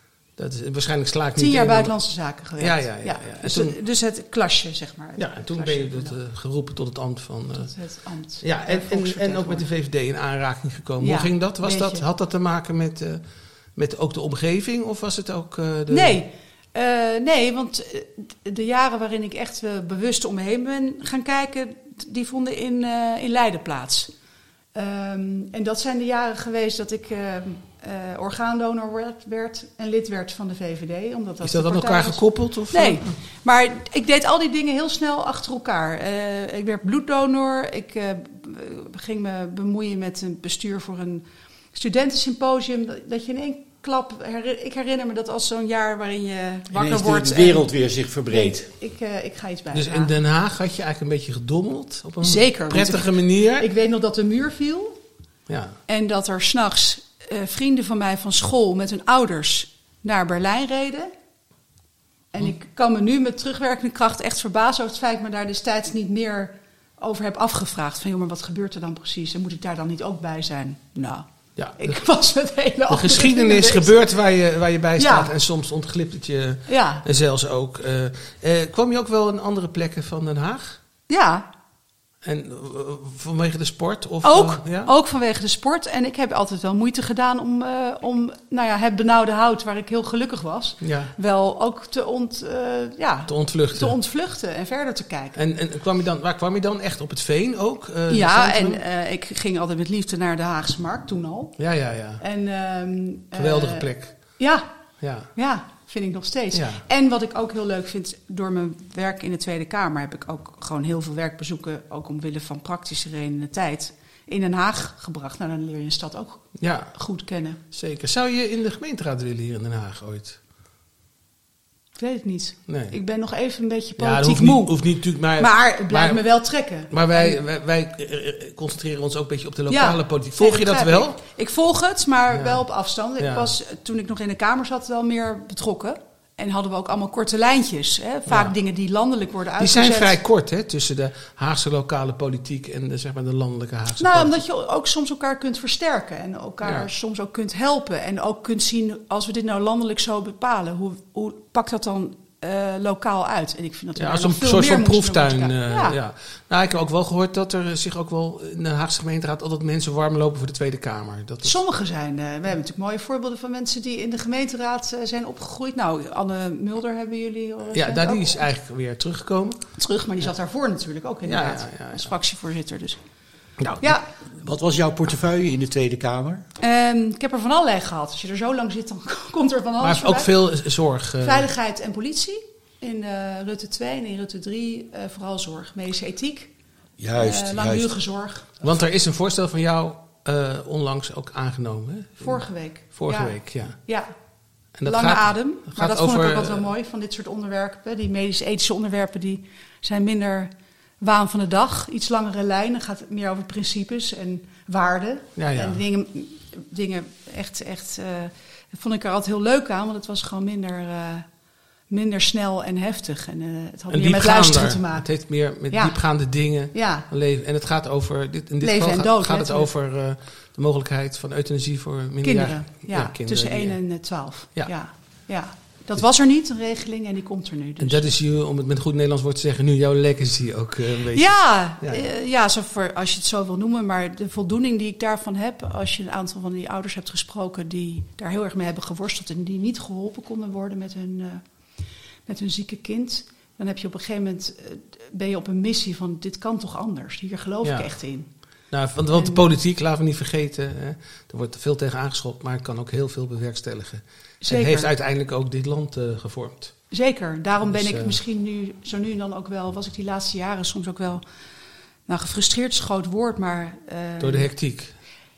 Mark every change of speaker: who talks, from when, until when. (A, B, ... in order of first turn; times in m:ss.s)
0:00.4-0:03.8 A
0:01.4-0:06.2 B
0:05.2-0:07.7 A
0:07.6-0:09.6 B
0:08.4-0:13.2 A
0:11.0-0:12.0 B
0:13.8-0:16.2 A
0:15.9-0:24.1 B
0:24.8-0:47.7 B
0:31.4-0:33.1 A
0:46.7-0:48.7 C
0:48.3-0:50.1 B
0:49.7-0:53.7 A
0:52.2-0:55.0 B
0:55.5-0:55.8 A
0:55.9-1:01.1 B
1:02.3-1:14.0 B
1:11.6-1:12.0 A
1:12.9-1:20.8 A
1:15.0-1:15.3 B
1:16.7-1:17.0 B
1:21.1-1:21.5 B
1:22.2-1:24.9 A
1:24.2-1:35.4 B
1:30.8-1:31.1 A
1:33.3-1:34.0 A
1:35.4-1:38.8 A
1:38.1-1:41.6 B
1:41.6-1:42.2 A
1:42.2-1:44.7 B
1:43.4-1:44.2 A
1:45.0-1:45.3 A
1:45.4-1:57.6 B
1:46.5-1:46.8 A
1:56.6-1:56.9 A
1:57.7-2:00.4 A
2:02.0-2:04.8 B
2:02.7-2:03.0 A
2:04.0-2:06.3 A
2:05.4-2:07.4 B
2:06.8-2:11.2 A
2:09.7-2:20.2 B
2:12.3-2:12.7 A
2:13.2-2:13.5 A
2:18.3-2:18.5 A
2:19.6-2:24.3 A
2:24.0-2:36.0 B
2:26.6-2:26.9 A
2:34.0-2:41.6 A
2:41.4-2:48.4 B
2:47.7-2:49.6 A
2:49.8-2:53.0 B
2:51.2-2:52.1 A
2:53.6-2:53.9 A
2:53.8-2:54.1 B
2:54.4-2:56.4 C
2:56.6-3:00.3 B
2:59.8-3:01.5 A
3:01.2-3:06.5 B
3:07.0-3:08.0 C
3:07.2-3:08.5 B
3:08.6-3:13.8 A
3:12.2-3:14.1 B
3:14.8-3:16.7 A
3:14.8-3:31.3 B
3:25.4-3:25.8 A
3:31.9-3:35.1 B
3:33.9-3:43.8 A
3:35.7-3:36.0 B
3:36.7-3:37.0 B
3:38.6-3:39.7 B
3:42.2-3:48.1 B
3:47.8-3:52.0 A
3:51.2-4:01.4 B
4:02.3-4:08.3 B
4:07.6-4:07.9 A
4:08.7-4:16.8 A
4:09.1-4:09.4 B
4:14.4-4:14.9 B
4:16.9-4:21.2 B
4:17.7-4:18.2 A
4:22.1-4:24.5 B
4:24.2-4:24.9 A